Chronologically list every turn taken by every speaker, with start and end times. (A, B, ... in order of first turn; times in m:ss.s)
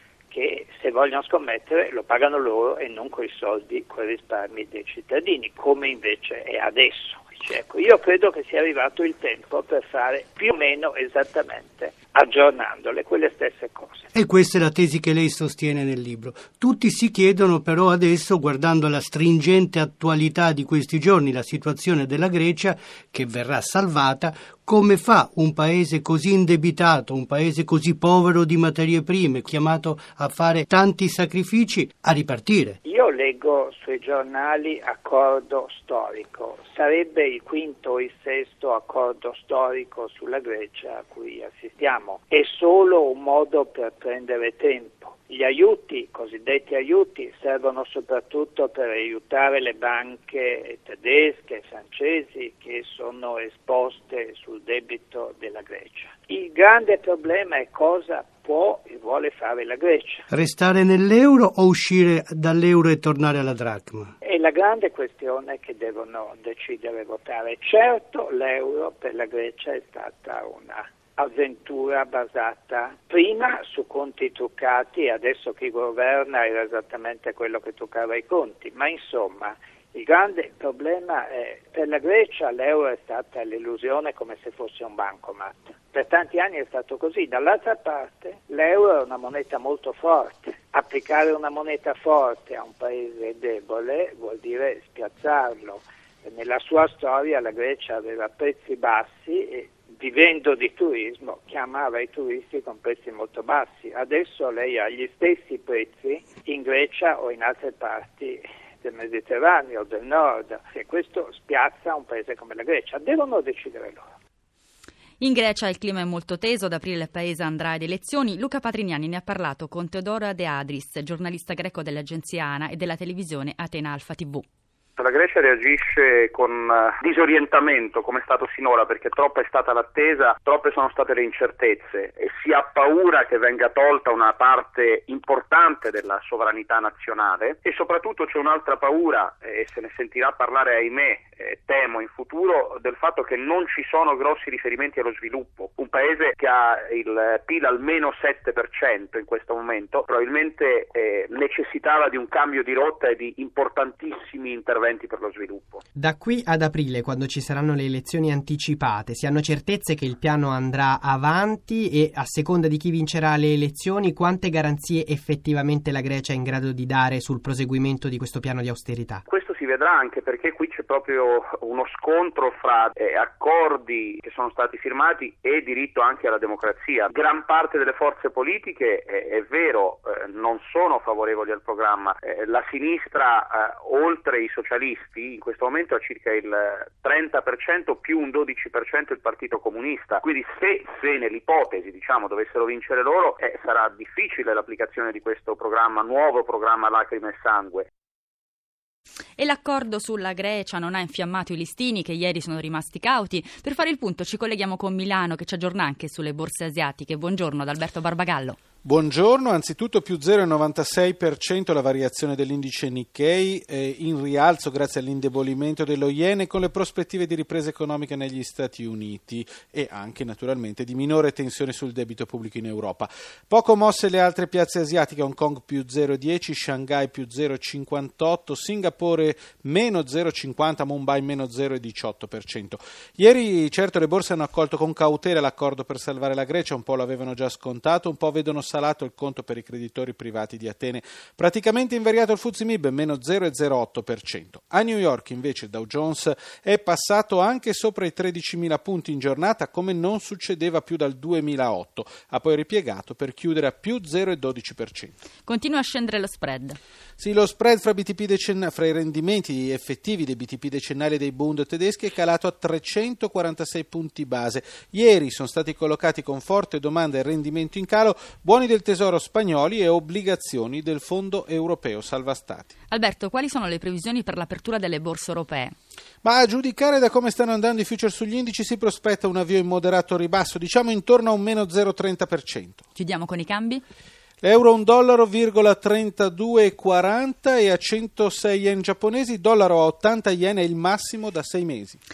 0:00.3-0:14.0 A
0:14.1-0:32.8 B
0:32.8-1:00.2 A
1:00.3-1:04.1 B
1:04.2-1:54.1 A
1:55.2-2:04.4 C
2:05.0-2:35.8 D
2:35.9-2:49.2 E
2:49.3-3:17.9 D
3:19.4-3:28.6 C
3:28.8-4:15.1 F
4:15.4-4:16.8 C
4:17.2-4:32.7 F
4:32.9-4:35.7 C
4:36.2-4:42.8 F
4:42.9-4:43.8 C
4:44.4-4:52.0 F